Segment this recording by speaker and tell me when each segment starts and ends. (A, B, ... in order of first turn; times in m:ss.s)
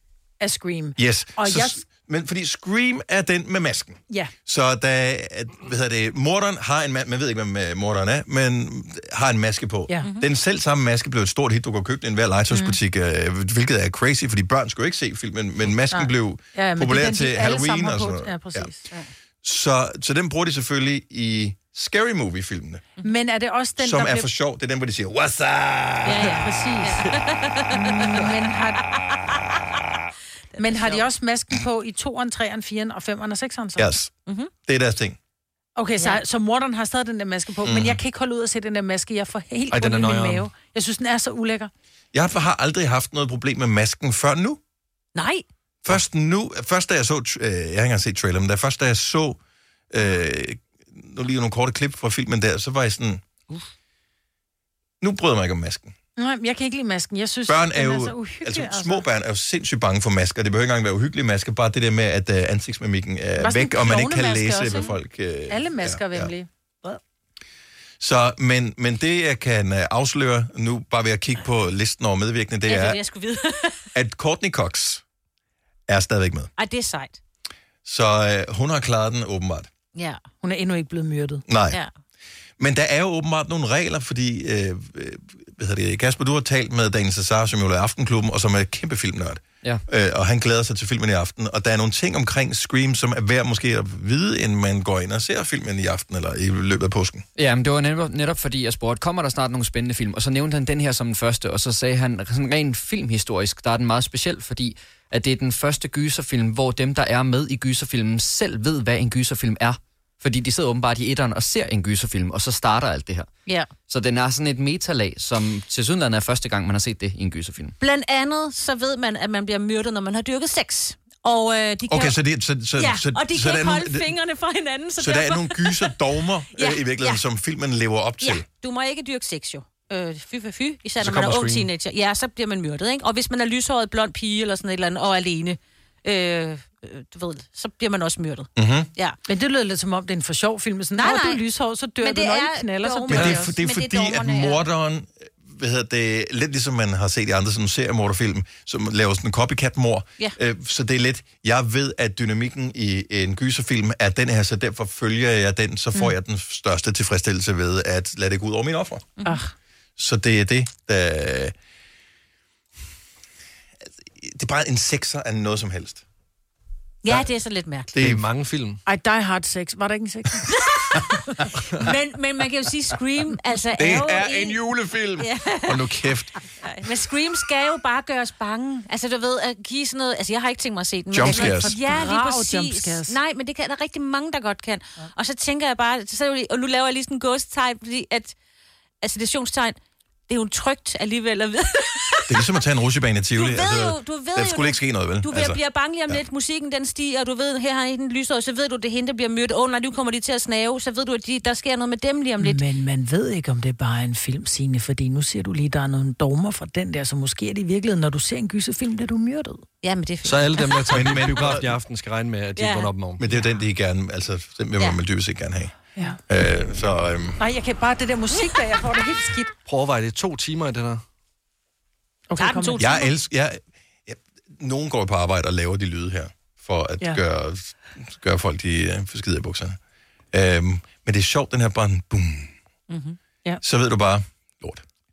0:00.4-0:01.8 A
0:01.0-0:18.7 B
0:10.0-0:10.3 C
0:12.5-0:12.8 A
0:15.9-0:18.8 A
0:19.4-0:22.8 B
0:23.0-0:24.3 A
0:23.8-0:26.3 B
0:26.0-0:28.3 C
0:26.2-0:27.0 A
0:27.7-0:28.8 A
0:30.6-0:31.0 C
0:30.6-0:33.9 A
0:33.8-0:35.2 B
0:35.8-0:41.7 A
0:37.6-0:38.0 B
0:39.7-0:40.5 D
0:42.1-0:44.6 B
0:45.1-0:45.4 C
0:45.8-0:49.4 B
0:49.9-0:53.2 B
0:55.0-0:55.9 B
0:56.2-0:59.0 A
0:57.5-1:06.3 B
1:03.4-1:04.9 A
1:05.5-1:07.0 A
1:08.0-1:13.0 B
1:12.7-1:13.8 C
1:13.9-1:15.0 B
1:15.9-1:16.5 B
1:16.6-1:17.2 C
1:17.8-1:19.7 B
1:19.9-1:20.2 C
1:20.4-1:21.4 A
1:21.5-1:21.8 B
1:22.6-1:37.2 B
1:37.4-1:57.8 E
1:53.4-1:53.8 C
1:57.8-2:02.2 C
2:01.9-2:04.1 B
2:02.8-2:06.0 C
2:05.0-2:08.4 B
2:06.6-2:07.2 C
2:08.2-2:19.2 C
2:11.0-2:11.6 D
2:18.6-2:18.9 B
2:19.3-2:23.6 A
2:21.0-2:21.4 C
2:22.0-2:24.6 C
2:23.1-2:39.1 B
2:39.2-2:39.5 A
2:40.0-2:41.5 B
2:44.2-2:46.0 B
2:47.0-2:47.9 C
2:47.9-2:48.2 B
2:48.0-2:48.8 D
2:48.8-2:50.5 A
2:51.7-2:54.6 C
2:53.8-2:56.3 B
2:55.2-2:55.8 C
2:56.6-3:08.3 C
3:01.1-3:01.8 B
3:01.2-3:03.2 A
3:09.0-3:09.8 C
3:10.3-3:12.4 C
3:12.3-3:16.2 B
3:13.4-3:22.6 C
3:22.4-3:29.6 A
3:29.8-3:31.0 C
3:30.2-3:33.2 D
3:30.9-3:31.7 B
3:32.6-3:32.9 C
3:33.2-3:35.7 B
3:36.3-3:37.4 B
3:37.4-3:39.5 A
3:39.7-3:41.0 D
3:42.3-3:43.0 A
3:42.4-3:43.1 C
3:42.8-3:49.8 B
3:50.3-3:52.5 B
3:52.9-3:53.2 C
3:53.6-3:54.8 B